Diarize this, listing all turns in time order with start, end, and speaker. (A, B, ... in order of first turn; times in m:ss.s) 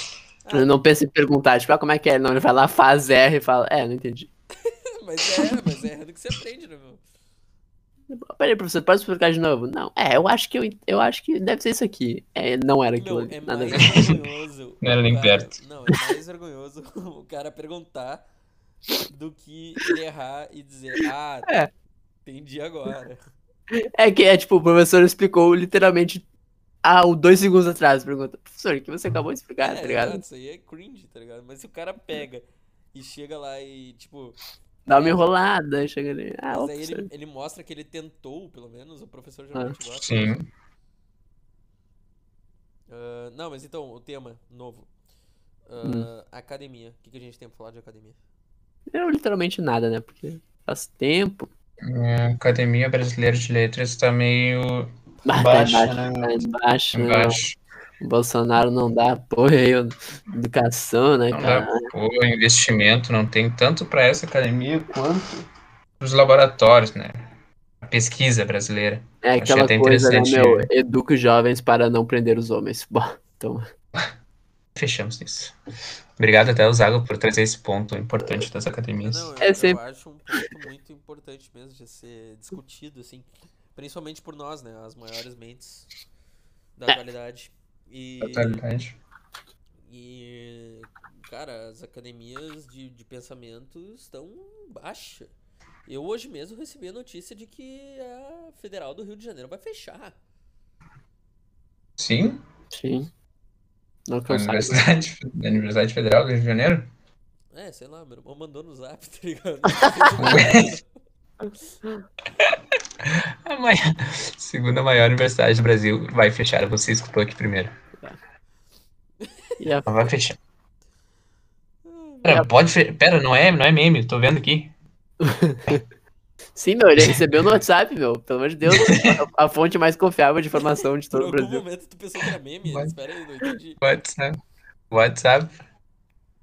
0:00.4-0:00.8 A
0:00.5-0:04.3 B
0:04.6-0:07.0 A
0:08.1-0:14.2 B
0:13.0-0:18.2 A
0:14.8-0:15.6 C
0:19.0-0:21.6 A
0:22.2-0:23.2 A
0:23.7-0:26.2 B
0:26.8-0:30.2 B
0:29.6-0:35.3 A
0:34.9-0:37.1 B
0:36.5-0:40.3 A
0:40.0-0:40.5 C
0:42.9-0:44.9 A
0:45.7-0:48.2 A
0:45.8-0:46.1 B
0:48.9-0:51.5 B
0:51.8-0:57.6 C
0:55.3-0:57.4 B
0:58.0-1:01.9 B
1:01.3-1:05.1 C
1:04.9-1:05.4 B
1:06.0-1:07.3 C
1:07.8-1:10.7 C
1:09.2-1:13.7 B
1:14.8-1:15.6 C
1:16.2-1:19.3 C
1:19.0-1:25.9 A
1:19.4-1:19.8 B
1:26.8-1:28.6 A
1:28.2-1:29.0 C
1:29.8-1:35.3 A
1:35.9-1:40.2 A
1:42.0-1:42.4 C
1:42.7-1:43.1 B
1:44.1-1:45.0 B
1:44.3-1:46.9 C
1:47.5-1:50.9 A
1:50.2-1:50.8 C
1:52.4-1:57.7 C
1:59.2-1:59.6 A
1:59.6-2:00.1 B
1:59.9-2:00.4 C
2:01.8-2:02.5 A
2:02.2-2:04.7 C
2:05.2-2:05.8 B
2:06.6-2:11.6 B
2:07.0-2:07.4 C
2:08.7-2:09.2 C
2:11.1-2:13.8 A
2:12.7-2:12.9 C
2:13.8-2:14.4 C
2:14.9-2:15.6 C